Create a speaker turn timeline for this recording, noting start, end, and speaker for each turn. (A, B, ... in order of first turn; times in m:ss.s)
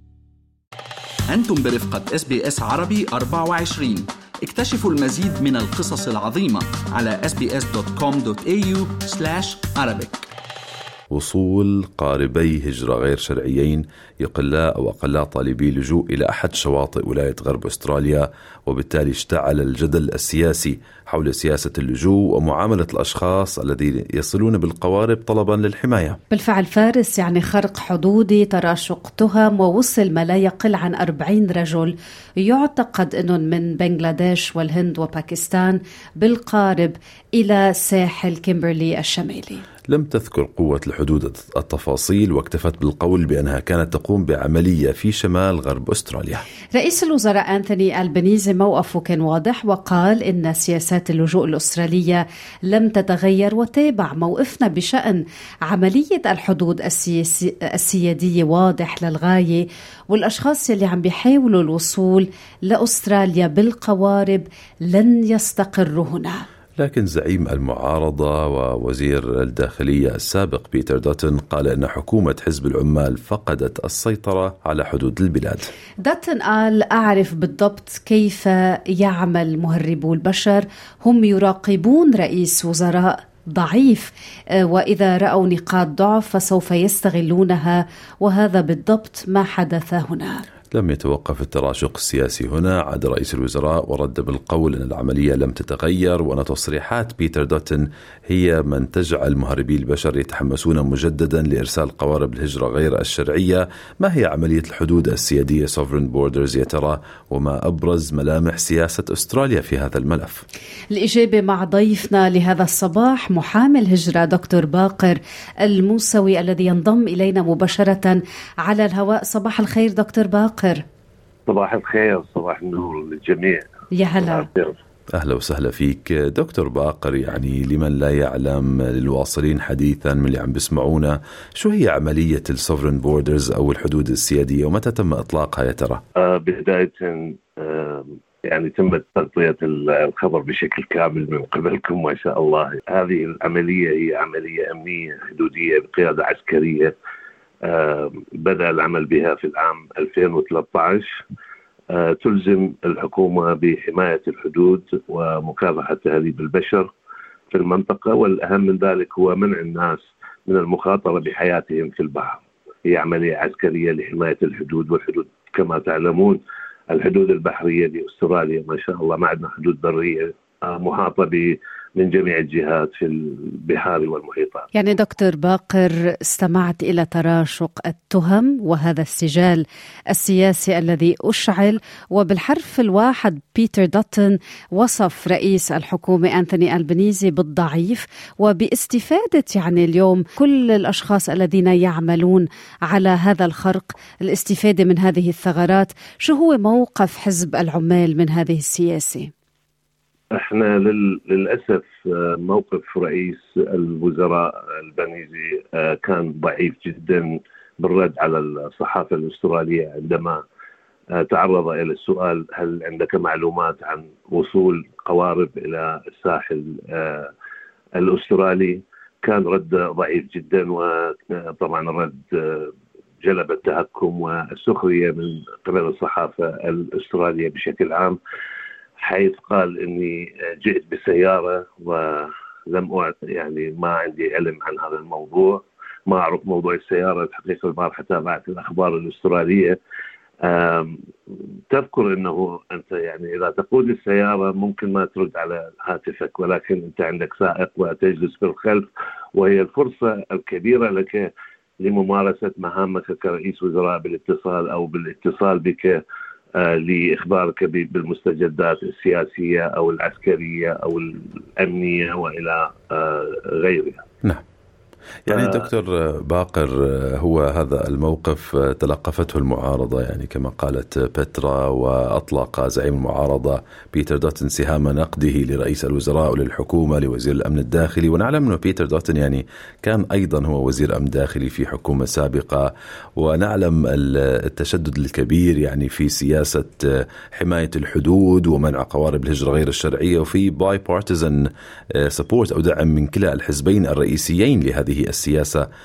0:01.3-0:10.2 A
0:11.1-0:26.2 B
0:26.3-0:39.6 C
0:39.9-0:46.4 B
0:46.7-1:06.4 C
1:06.8-1:15.7 B
1:16.0-1:24.1 C
1:24.7-1:30.4 C
1:30.7-1:50.4 B
1:50.9-2:00.8 C
2:01.5-2:03.6 D
2:03.9-2:04.4 C
2:05.1-2:16.0 B
2:16.2-2:26.9 D
2:27.6-2:31.2 D
2:31.9-2:36.9 D
2:37.5-2:46.4 D
2:46.9-2:54.6 D
2:54.7-3:19.3 C
3:20.3-3:30.4 D
3:31.1-3:37.3 D
3:38.0-3:48.2 D
3:49.0-3:59.8 D
4:00.4-4:11.3 D
4:11.8-4:16.0 D
4:16.6-4:24.0 D
4:25.2-4:51.5 B
4:25.3-4:25.6 D
4:52.0-4:55.6 B